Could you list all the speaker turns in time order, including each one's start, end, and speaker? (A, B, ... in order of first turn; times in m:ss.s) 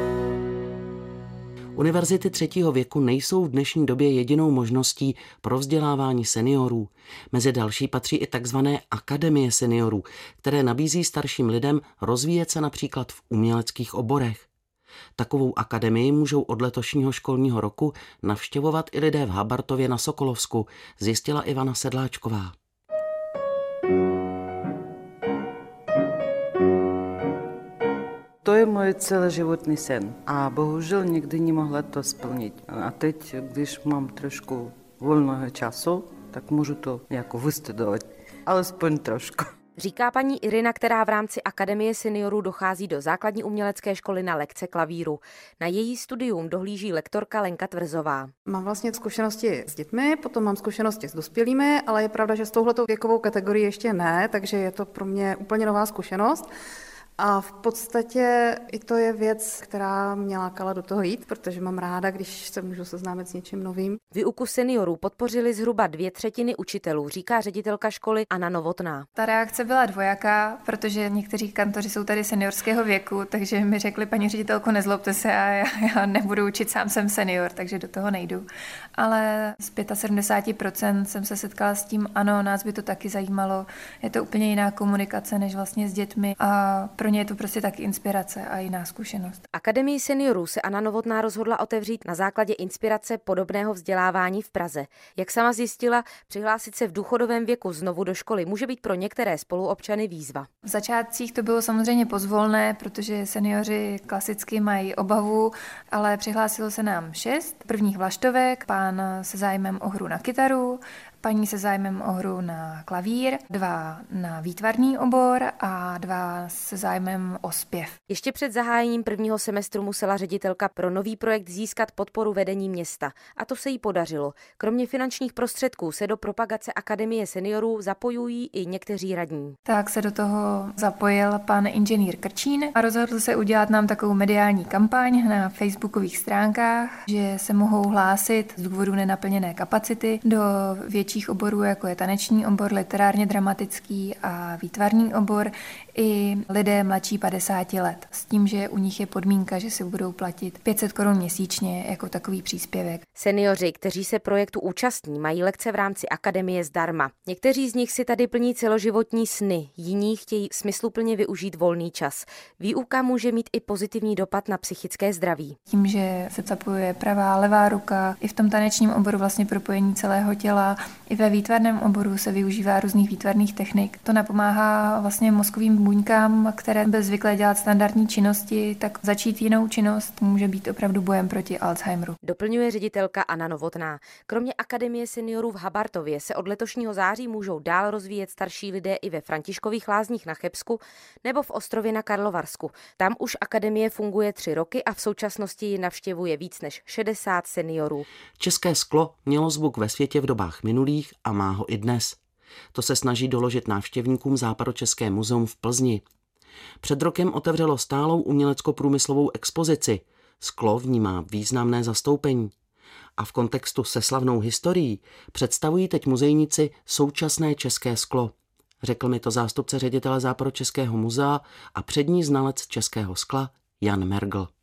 0:01.8-0:14.5 A
0:15.2-0:22.5 A
0:28.4-0:39.5 B
0:39.8-0:48.3 C
0:48.5-0:56.5 D
0:57.2-1:04.0 D
1:04.1-1:09.1 C
1:09.2-1:29.4 E
1:29.5-1:40.5 C
1:40.6-1:58.0 E
1:58.1-2:09.6 C
2:09.7-2:33.0 E
2:33.2-2:45.6 C
2:45.7-3:02.2 E
3:02.2-3:18.1 C
3:18.4-3:22.2 A
3:22.7-3:26.0 A
3:26.8-3:32.5 A
3:33.2-3:44.5 A